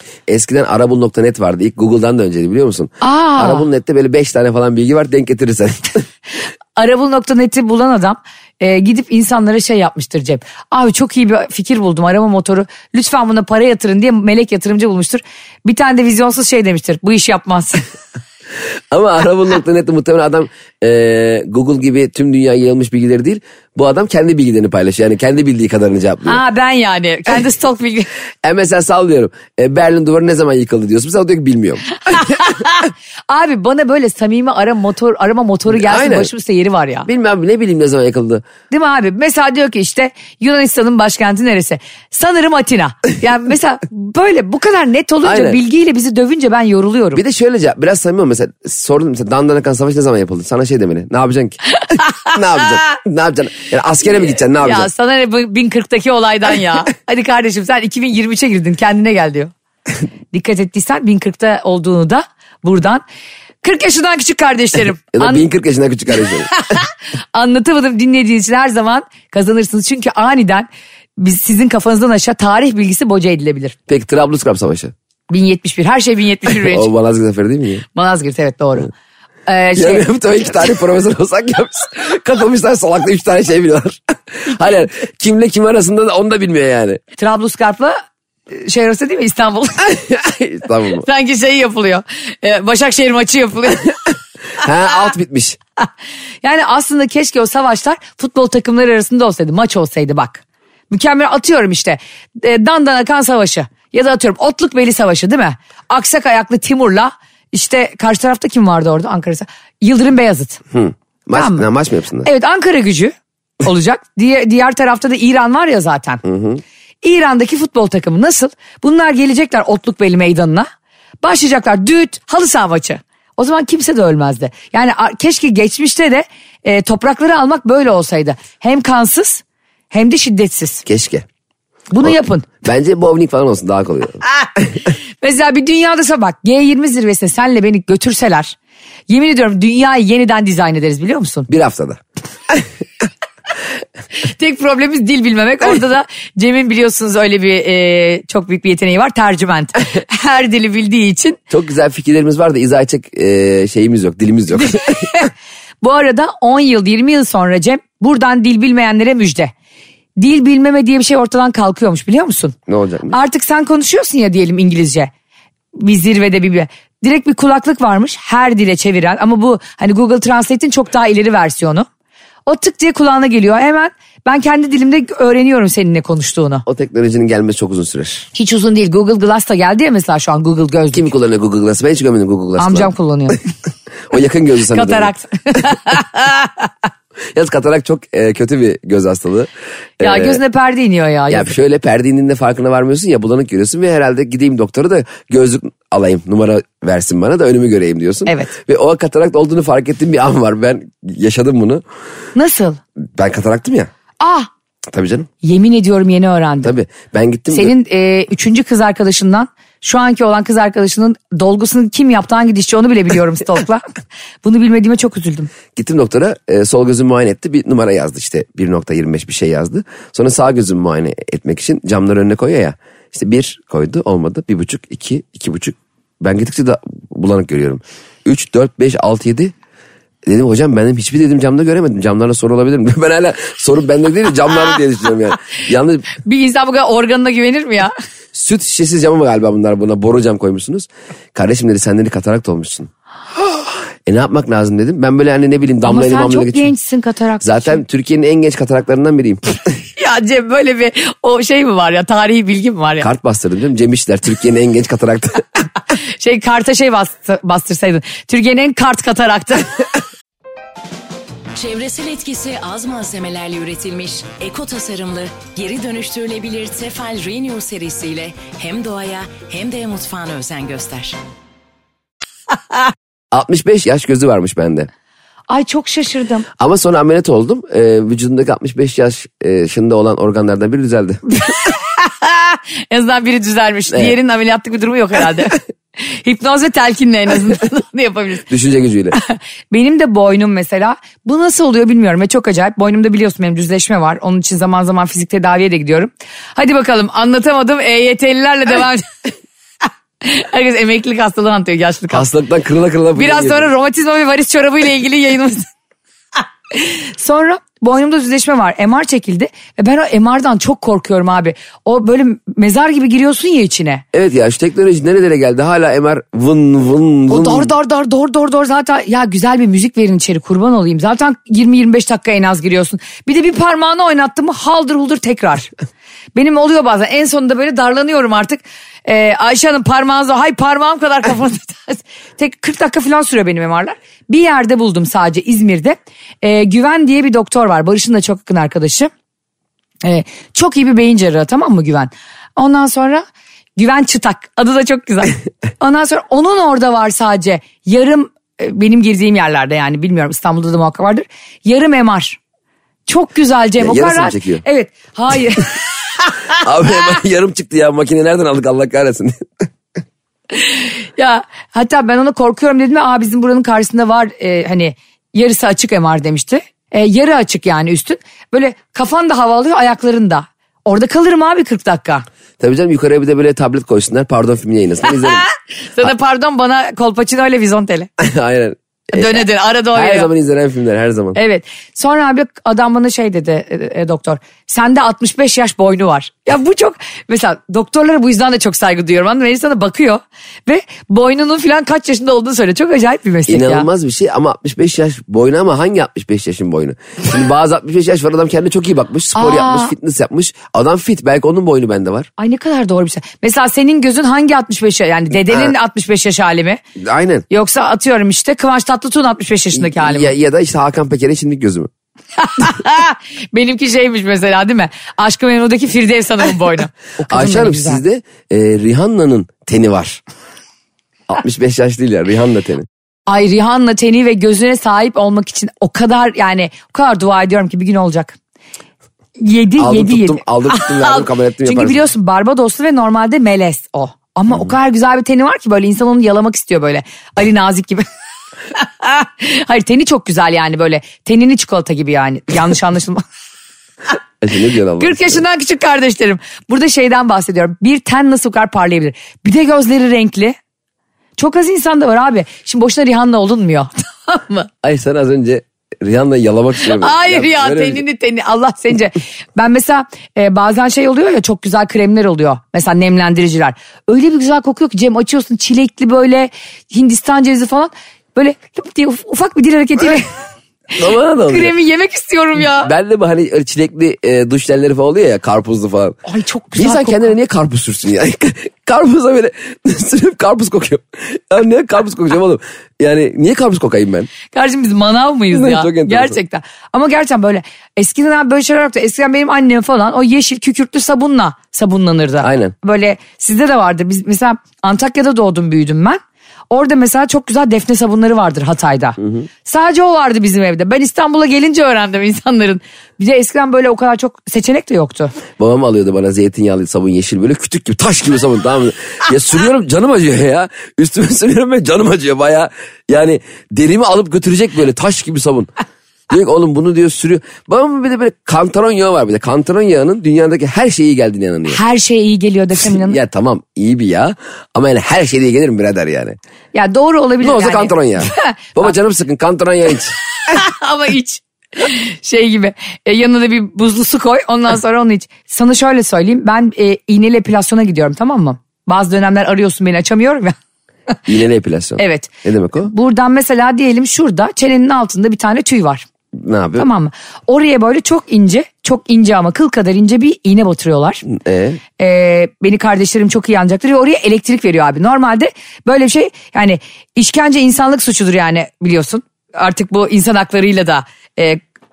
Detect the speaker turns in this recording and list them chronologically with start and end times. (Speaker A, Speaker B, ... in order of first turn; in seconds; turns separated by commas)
Speaker A: 0.3-6.0, Speaker B: 3.0-3.7, Speaker B: 6.8-17.8, Speaker A: 18.9-26.4, Speaker B: 26.2-28.1, Speaker A: 28.4-32.2, Speaker B: 32.0-37.1, Speaker A: 35.7-36.3, Speaker A: 37.1-38.5, Speaker B: 38.7-47.2, Speaker A: 45.2-45.6, Speaker A: 47.1-51.6, Speaker B: 51.9-52.6, Speaker A: 52.3-54.9, Speaker B: 54.6-59.5, Speaker B: 60.3-63.0, Speaker B: 63.6-65.5, Speaker A: 65.1-66.5, Speaker B: 66.5-73.8, Speaker A: 73.9-74.9, Speaker B: 75.3-76.9, Speaker A: 76.5-77.9, Speaker B: 78.0-78.9, Speaker B: 79.5-80.1, Speaker A: 79.8-87.0, Speaker B: 87.2-88.0, Speaker B: 88.5-90.0, Speaker A: 90.0-91.0, Speaker B: 91.0-94.1, Speaker A: 94.6-95.6, Speaker B: 96.4-110.6, Speaker A: 110.7-112.3, Speaker B: 111.3-111.7, Speaker B: 112.2-116.2, Speaker A: 116.2-116.6, Speaker B: 117.0-120.7, Speaker B: 121.2-130.8, Speaker A: 130.9-131.3, Speaker B: 131.9-132.5, Speaker A: 132.0-134.7, Speaker B: 135.2-138.6, Speaker B: 139.1-141.5, Speaker A: 141.5-142.0, Speaker B: 144.2-151.4, Speaker A: 151.5-155.0, Speaker B: 154.6-155.3, Speaker B: 155.8-159.5, Speaker B: 160.2-162.6, Speaker A: 162.7-163.2, Speaker B: 163.1-165.1, Speaker B: 165.8-171.9, Speaker B: 172.5-176.7, Speaker A: 176.7-178.3, Speaker B: 178.3-181.1, Speaker A: 180.9-182.9, Speaker B: 182.6-183.4, Speaker A: 184.1-185.1, Speaker B: 184.7-186.5, Speaker A: 187.3-190.4, Speaker B: 190.0-191.6, Speaker A: 191.3-201.8, Speaker B: 198.3-198.5, Speaker B: 202.3-202.8, Speaker A: 203.2-203.9, Speaker B: 204.2-204.5, Speaker A: 204.9-205.3, Speaker B: 205.4-206.7, Speaker A: 206.6-207.7, Speaker B: 207.5-213.9, Speaker B: 214.4-215.5, Speaker A: 215.8-229.5, Speaker A: 230.3-236.1, Speaker B: 236.2-237.9, Speaker A: 238.3-242.9, Speaker A: 244.1-246.7, Speaker B: 245.8-247.8, Speaker A: 247.4-249.7, Speaker B: 250.0-253.1, Speaker A: 253.0-255.5, Speaker B: 256.2-259.8, Speaker C: 261.6-271.2, Speaker A: 273.3-274.9, Speaker B: 275.5-276.5, Speaker A: 276.6-281.2, Speaker B: 281.4-288.4, Speaker A: 288.5-289.2, Speaker B: 289.1-299.1, Speaker B: 300.2-302.3, Speaker A: 302.1-303.7, Speaker B: 303.1-305.7, Speaker B: 306.7-314.0, Speaker A: 314.1-317.7, Speaker B: 317.3-325.7, Speaker B: 326.4-339.1, Speaker B: 340.0-343.2, Speaker B: 343.8-352.4, Speaker B: 353.1-356.4, Speaker A: 353.8-354.6, Speaker A: 356.6-359.7, Speaker B: 360.5-372.2, Speaker A: 372.6-375.4, Speaker B: 375.1-378.1, Speaker A: 378.2-381.4, Speaker B: 379.1-380.3, Speaker B: 381.4-393.9, Speaker A: 393.5-402.3, Speaker B: 399.4-399.9, Speaker B: 402.4-406.8, Speaker A: 405.5-405.7, Speaker A: 407.0-407.5, Speaker B: 407.5-410.3, Speaker A: 409.7-411.9, Speaker B: 412.4-418.0, Speaker A: 417.3-420.2, Speaker A: 421.3-422.9, Speaker B: 423.3-428.4, Speaker B: 429.4-438.1, Speaker A: 429.8-432.0, Speaker B: 438.8-443.2, Speaker A: 444.4-445.4, Speaker B: 445.0-450.6, Speaker B: 451.4-454.7, Speaker A: 454.8-458.0, Speaker B: 456.8-470.3, Speaker A: 471.0-471.7, Speaker B: 471.5-472.9, Speaker A: 472.6-476.2, Speaker B: 476.2-477.3, Speaker A: 476.8-484.3, Speaker B: 484.5-505.3, Speaker A: 485.5-486.4, Speaker A: 492.4-492.8, Speaker A: 499.2-499.5, Speaker A: 505.6-515.7, Speaker A: 516.3-521.8, Speaker B: 521.7-523.2, Speaker A: 522.8-526.4, Speaker B: 526.7-528.9, Speaker A: 527.4-530.1, Speaker B: 530.5-540.5, Speaker A: 541.3-542.9, Speaker B: 542.0-542.3, Speaker B: 542.8-546.1, Speaker A: 546.4-546.9, Speaker B: 546.8-551.2, Speaker A: 551.3-551.8, Speaker B: 552.0-561.6